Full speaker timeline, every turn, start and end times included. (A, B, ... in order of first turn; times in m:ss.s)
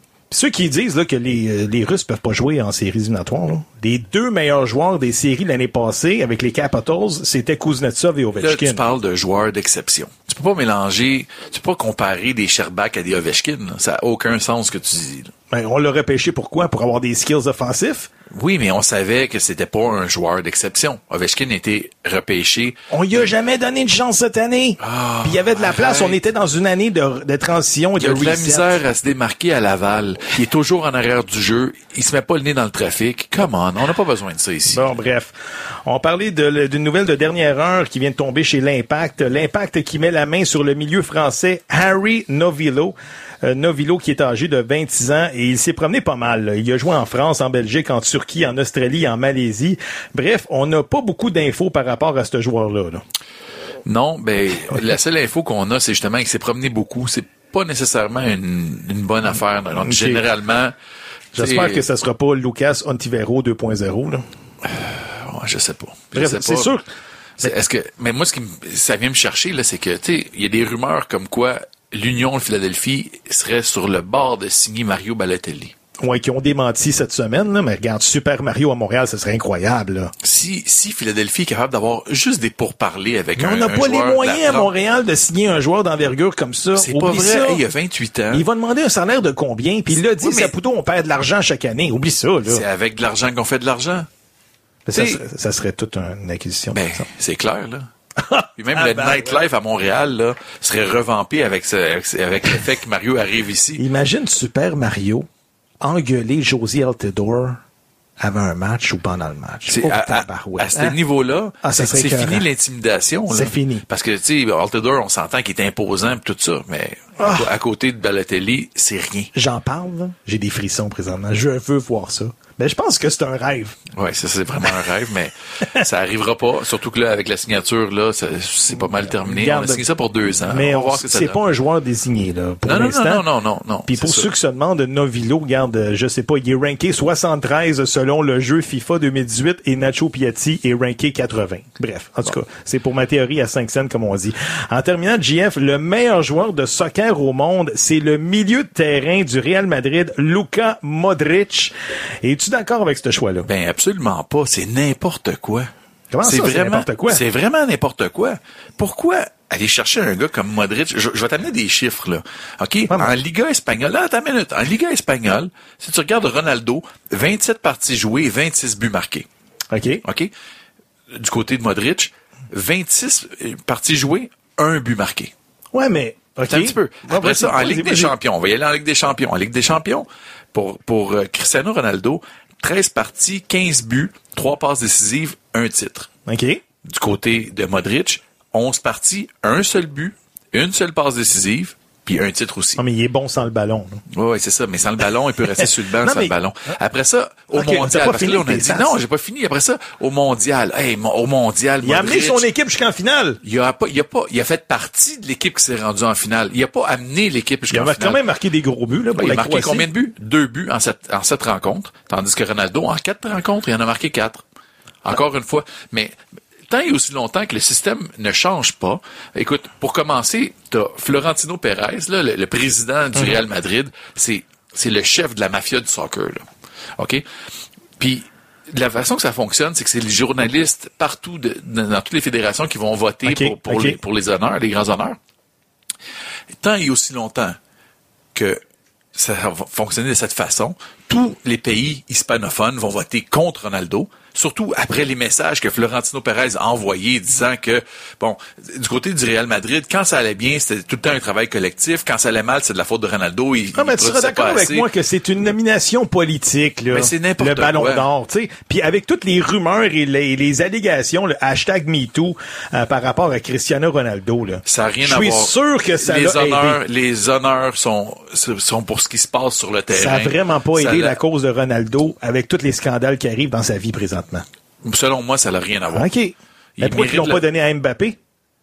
0:00.3-0:08.8 A
0:08.4-0:15.3 B
0:15.5-0:18.1 A
0:18.3-0:23.2 B
0:22.9-0:28.8 A
0:24.8-0:26.2 B
0:28.0-0:34.9 B
0:34.7-0:53.0 A
0:53.9-1:00.8 B
0:59.8-1:00.2 A
1:01.3-1:01.8 B
1:01.3-1:04.2 A
1:04.6-1:06.7 B
1:06.1-1:06.8 A
1:07.4-1:15.7 B
1:16.0-1:20.1 A
1:20.2-1:24.7 B
1:23.4-1:27.6 A
1:26.8-1:28.4 B
1:28.3-1:32.6 A
1:30.0-1:30.5 B
1:32.4-1:34.1 B
1:34.9-1:37.0 A
1:34.9-1:35.2 B
1:36.7-1:37.9 B
1:38.2-1:39.4 A
1:38.6-1:43.8 B
1:43.8-1:45.3 A
1:45.8-1:47.6 A
1:48.2-1:50.9 A
1:49.7-1:59.3 B
1:51.6-1:52.4 A
1:53.3-1:53.8 A
1:57.2-1:57.5 A
1:59.4-2:03.8 A
2:03.9-2:11.4 B
2:08.7-2:09.8 A
2:10.5-2:13.2 A
2:12.6-2:14.3 B
2:13.9-2:33.5 A
2:33.5-2:35.7 B
2:36.1-2:37.2 A
2:36.2-2:49.3 B
2:49.7-2:50.0 A
2:50.0-2:50.3 B
2:51.1-2:55.3 B
2:55.7-2:58.1 A
2:56.5-3:06.1 B
3:06.3-3:06.6 A
3:06.8-3:12.8 B
3:12.8-3:14.0 A
3:14.1-3:22.4 B
3:15.6-3:16.3 A
3:17.5-3:19.0 A
3:21.8-3:23.4 A
3:23.4-3:28.2 B
3:27.7-3:29.9 A
3:29.2-3:34.4 B
3:35.0-3:36.1 B
3:36.7-3:46.4 B
3:47.0-3:47.2 B
3:48.0-3:55.2 B
3:53.2-3:54.0 A
3:56.6-3:57.6 B
3:58.3-3:58.6 B
3:59.1-4:14.9 B
4:13.8-4:26.8 A
4:16.9-4:18.1 B
4:24.7-4:31.2 B
4:29.9-4:34.4 A
4:34.8-4:36.1 B
4:35.9-4:38.2 A
4:36.8-4:37.4 B